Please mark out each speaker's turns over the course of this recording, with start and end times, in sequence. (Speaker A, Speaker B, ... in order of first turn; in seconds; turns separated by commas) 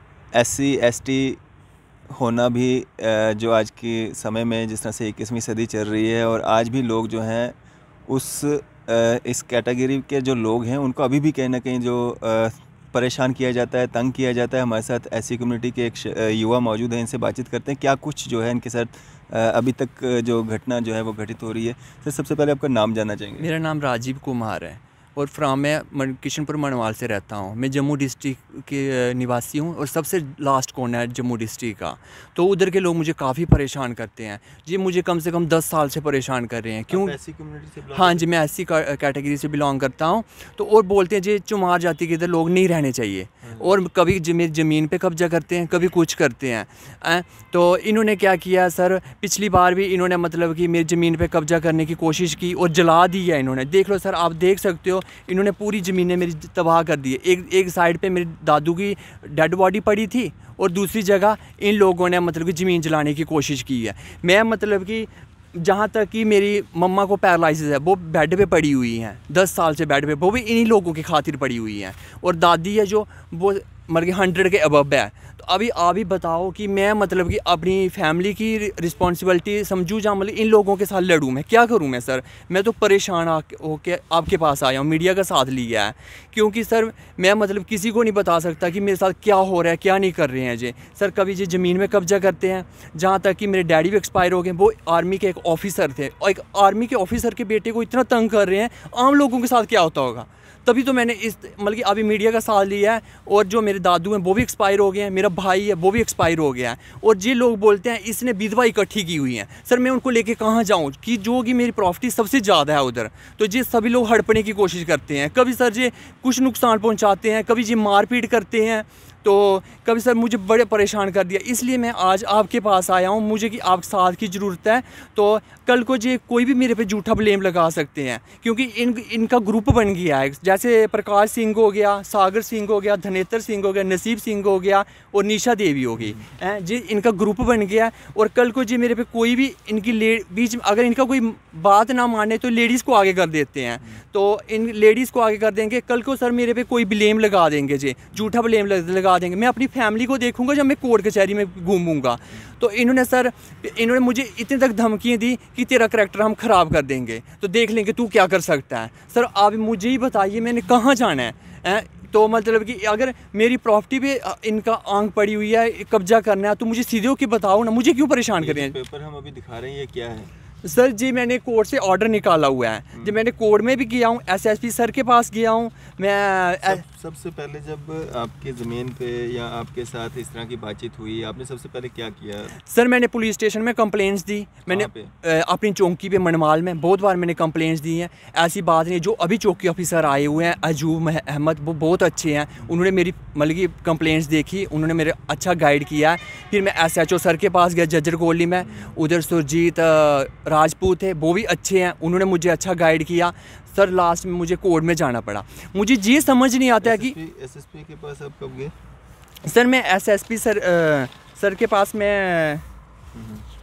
Speaker A: 0.3-1.4, Speaker A: 2.1-7.6, Speaker A: 8.1-23.5, Speaker B: 23.4-37.2, Speaker A: 36.9-38.3, Speaker B: 37.9-168.8, Speaker A: 43.4-43.8, Speaker A: 136.0-136.3, Speaker A: 168.4-170.3, Speaker B: 170.6-176.8, Speaker A: 172.9-173.2, Speaker A: 176.6-182.6, Speaker B: 182.7-207.2, Speaker A: 184.7-185.1, Speaker A: 198.6-199.0, Speaker A: 206.2-208.7, Speaker B: 209.4-212.6, Speaker A: 213.1-213.5